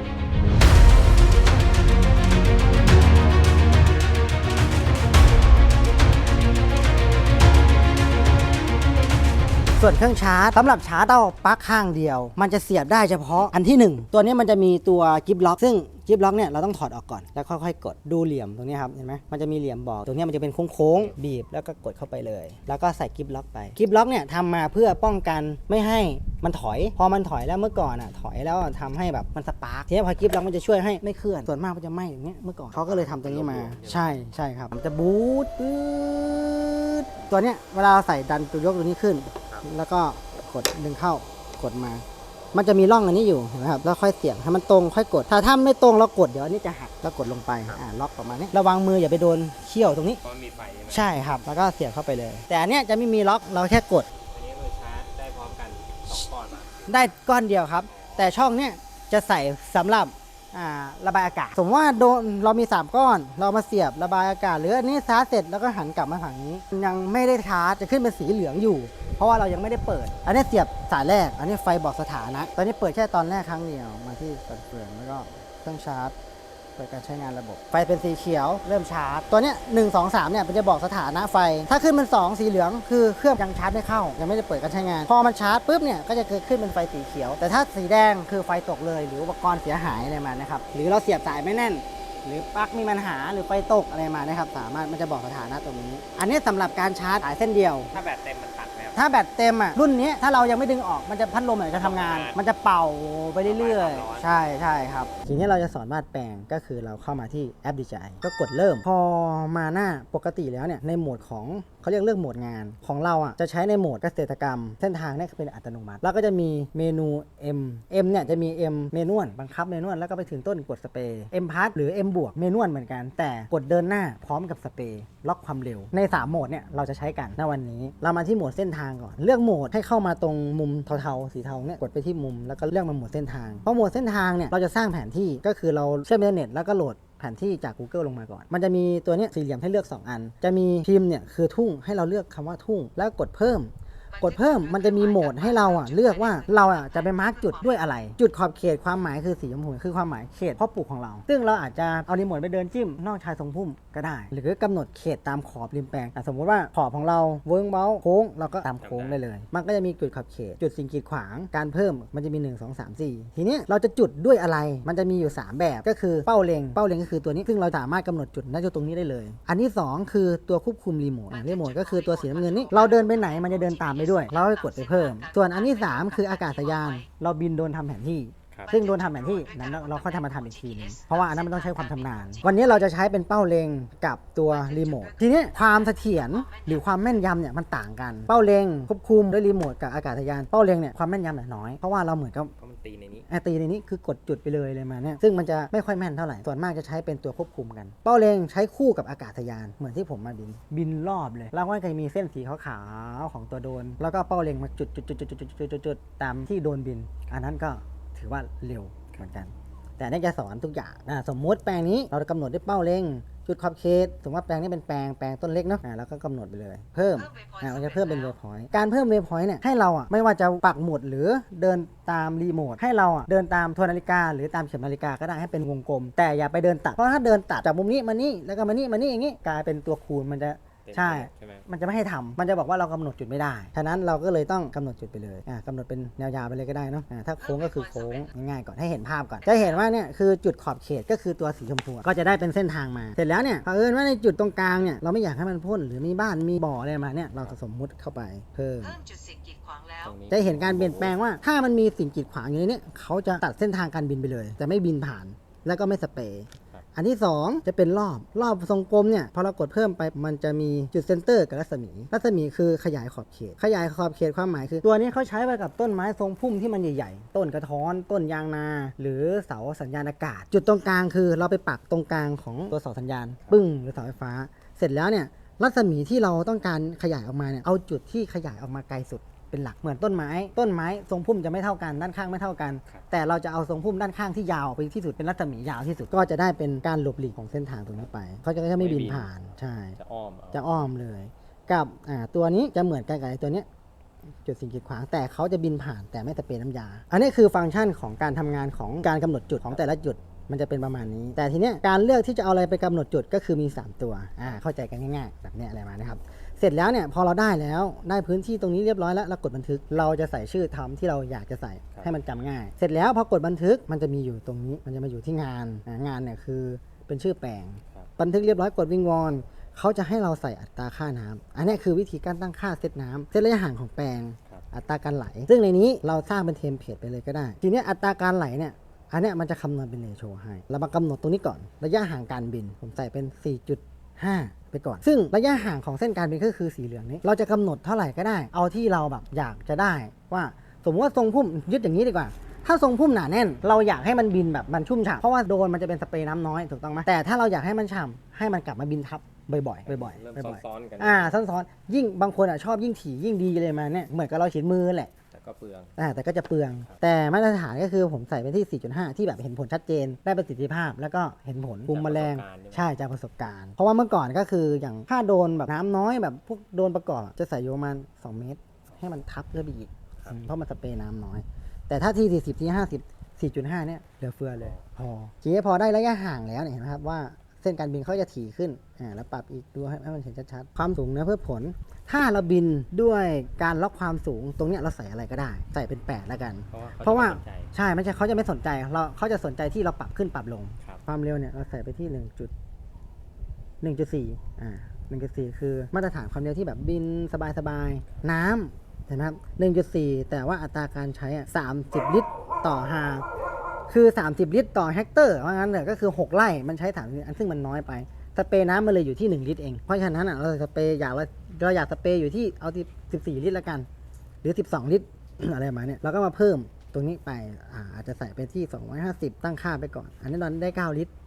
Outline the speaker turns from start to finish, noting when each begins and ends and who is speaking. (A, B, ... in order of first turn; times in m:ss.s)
0:09.7-0:50.2 A
0:32.8-0:34.1 B
0:42.3-0:42.5 B
0:50.2-0:51.2 B
0:50.9-0:54.1 A
0:54.2-0:57.1 B
0:56.9-1:16.2 A
0:57.8-0:58.3 B
1:16.8-1:37.9 A
1:37.9-1:39.1 B
1:39.0-3:12.5 A
1:41.7-1:42.4 B
1:43.4-1:44.4 B
2:24.1-2:27.8 C
2:38.8-2:39.2 B
2:51.3-2:57.1 C
2:58.7-3:02.8 C
3:04.5-3:06.8 C
3:12.6-3:13.3 B
3:13.3-4:09.0 A
3:37.2-3:38.4 C
3:50.8-3:51.7 B
3:57.4-3:58.3 C
3:59.4-3:59.8 C
4:08.8-4:10.2 C
4:10.0-4:11.2 B
4:10.3-4:50.0 A
4:48.8-4:49.3 B
4:50.0-4:50.8 B
4:50.5-4:53.7 A
4:54.4-5:55.1 A
5:49.9-5:51.4 B
5:55.3-5:56.0 B
5:56.0-6:32.5 A
6:01.9-6:02.9 B
6:14.6-6:14.9 B
6:26.7-6:27.7 B
6:33.8-6:43.2 A
6:43.9-6:53.9 A
6:54.4-7:01.1 A